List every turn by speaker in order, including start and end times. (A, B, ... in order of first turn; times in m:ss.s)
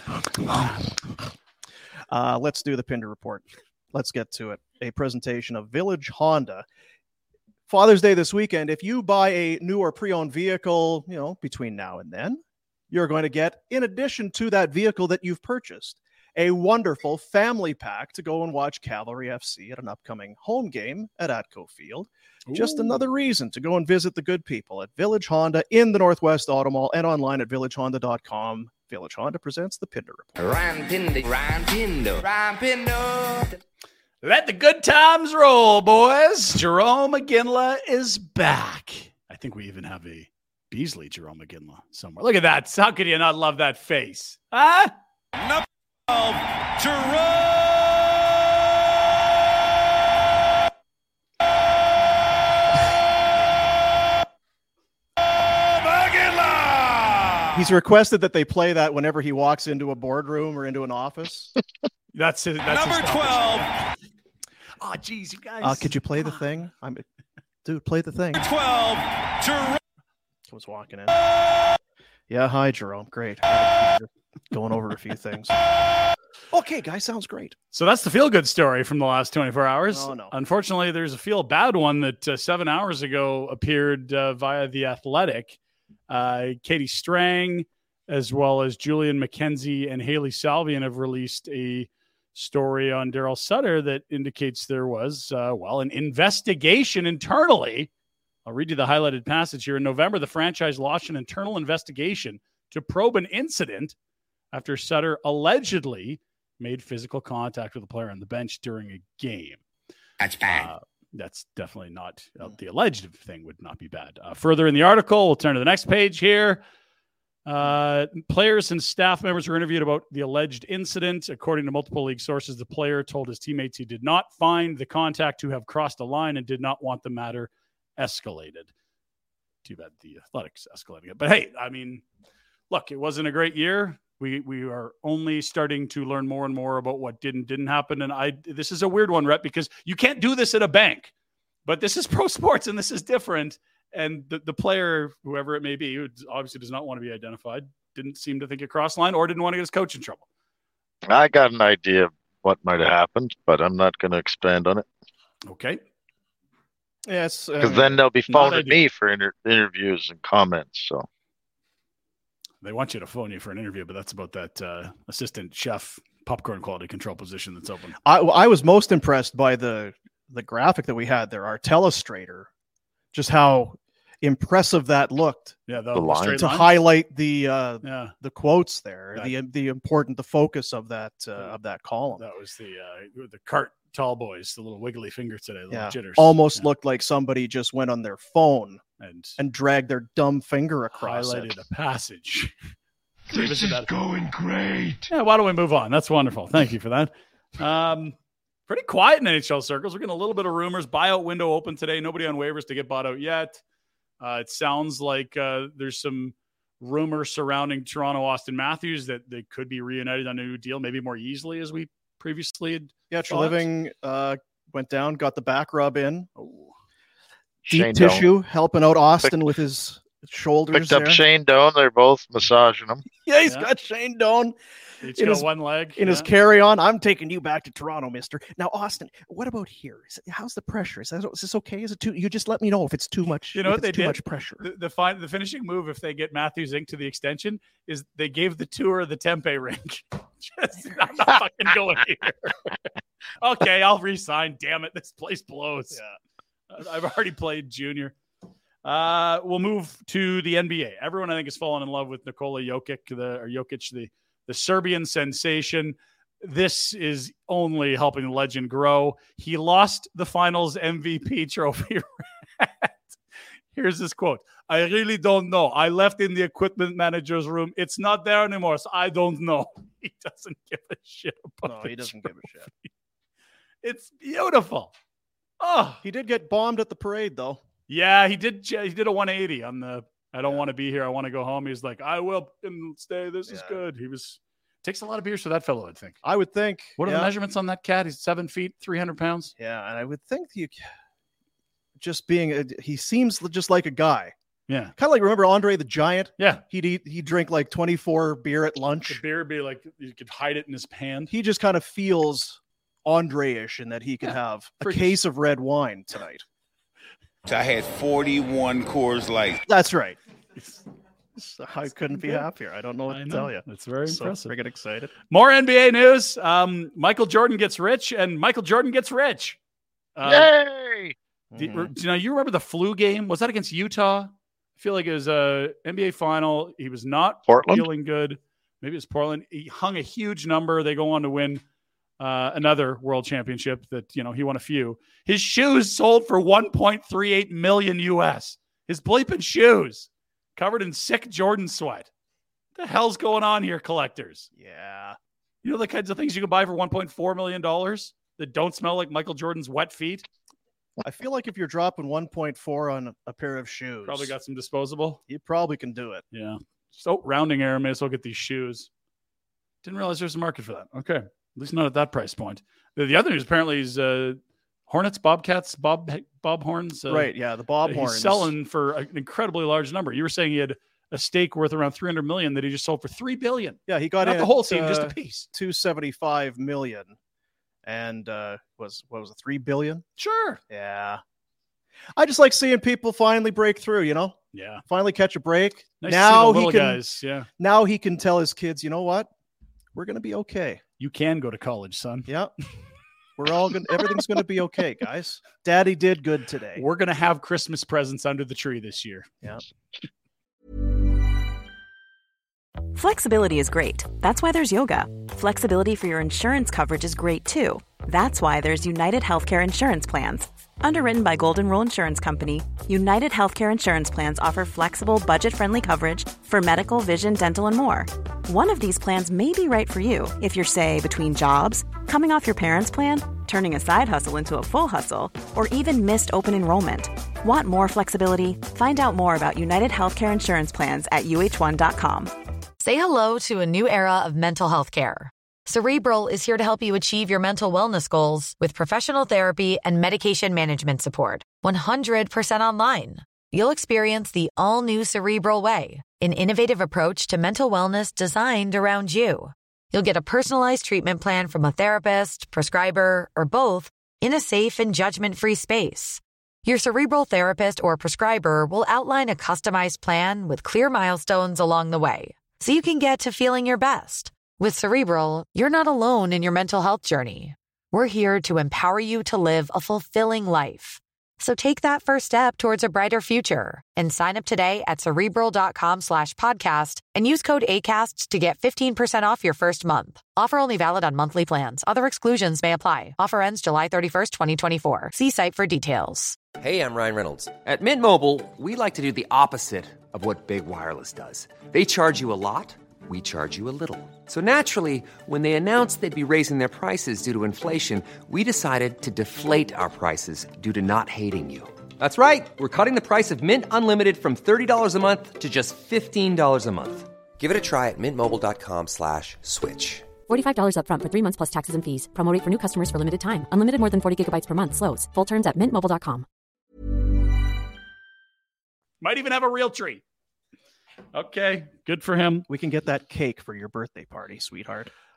0:02.1-0:06.6 A
0:07.7-0:12.4 A
0:12.9-0:30.4 A
0:22.5-0:23.0 B
0:30.4-0:33.6 C
0:34.2-0:44.9 B
0:45.4-0:48.0 D
0:55.4-0:57.6 D
0:57.5-1:01.5 A
1:02.1-1:03.8 B
1:02.6-1:03.7 D
1:04.8-1:06.4 B
1:05.6-1:07.0 A
1:07.6-1:08.4 A
1:08.3-1:09.8 D
1:10.5-1:11.2 A
1:12.3-1:15.5 A
1:16.5-1:17.6 A
1:17.7-1:25.6 B
1:19.9-1:20.3 A
1:26.1-1:37.9 B
1:38.4-1:43.9 B
1:44.5-1:49.6 B
1:50.2-1:50.7 D
1:50.4-1:56.6 B
1:57.4-2:08.7 B
2:09.6-2:12.0 B
2:12.7-2:21.1 B
2:21.6-2:30.2 B
2:31.1-2:34.8 E
2:35.5-2:35.8 B
2:37.1-2:38.0 A
2:37.6-2:41.0 E
2:38.3-2:38.8 B
2:42.6-2:48.0 B
2:48.0-2:52.5 A
2:53.1-2:55.5 A
2:55.7-2:56.7 B
2:55.9-2:56.5 E
2:56.4-3:02.2 A
2:57.8-2:58.1 B
3:02.2-3:06.6 B
3:05.7-3:08.8 A
3:09.0-3:09.4 B
3:09.4-3:11.6 A
3:11.0-3:12.5 B
3:13.3-3:15.1 D
3:13.3-3:13.9 B
3:15.1-3:18.1 B
3:18.7-3:23.6 B
3:24.2-3:33.7 B
3:33.1-3:36.3 A
3:36.4-3:36.7 B
3:37.7-3:38.3 E
3:37.7-3:41.2 A
3:40.7-3:43.0 E
3:43.2-3:44.5 A
3:45.0-3:46.3 B
3:45.1-3:54.7 A
3:53.5-4:02.8 B
4:03.4-4:06.0 B
4:06.7-4:08.1 B
4:08.8-4:23.1 B
4:23.7-4:32.9 B
4:31.6-4:32.7 A
4:33.8-4:34.9 B
4:35.6-4:36.0 B
4:36.0-4:37.6 A
4:37.9-4:46.2 B
4:43.4-4:43.8 A
4:46.2-4:47.3 A
4:47.0-4:49.5 B
4:49.6-4:50.8 A
4:52.0-4:54.3 A
4:54.7-4:54.9 B
4:55.0-4:59.2 A
4:59.1-5:01.3 B
5:01.3-5:06.4 A
5:04.8-5:05.2 B
5:07.4-5:09.6 D
5:09.7-5:10.2 A
5:11.4-5:15.1 A
5:12.1-5:12.4 B
5:13.1-5:14.5 B
5:15.3-5:19.6 B
5:20.2-5:20.5 B
5:20.2-5:21.1 E
5:21.5-5:21.9 A
5:21.6-5:31.6 B
5:27.5-5:27.9 E
5:32.2-5:42.1 B
5:42.8-5:44.5 B
5:44.6-5:45.2 A
5:45.6-5:50.2 B
5:51.0-5:54.3 A
5:54.0-5:55.2 B
5:55.3-5:56.2 A
5:56.3-5:58.9 B
5:59.8-6:07.3 B
6:07.1-6:08.5 A
6:07.8-6:15.5 B
6:13.9-6:17.2 A
6:17.8-6:20.0 A
6:20.2-6:20.6 B
6:20.7-6:21.2 A
6:22.2-6:27.0 A
6:24.5-6:24.8 B
6:26.0-6:27.5 B
6:27.6-6:29.3 A
6:29.9-6:30.8 A
6:31.0-6:32.3 B
6:33.4-6:36.8 A
6:36.8-6:39.3 B
6:42.9-7:12.3 F
7:12.8-8:06.4 G
8:06.6-8:30.1 H
8:30.3-8:36.2 I
8:39.0-8:40.0 B
8:41.1-8:42.4 B
8:42.5-8:44.9 A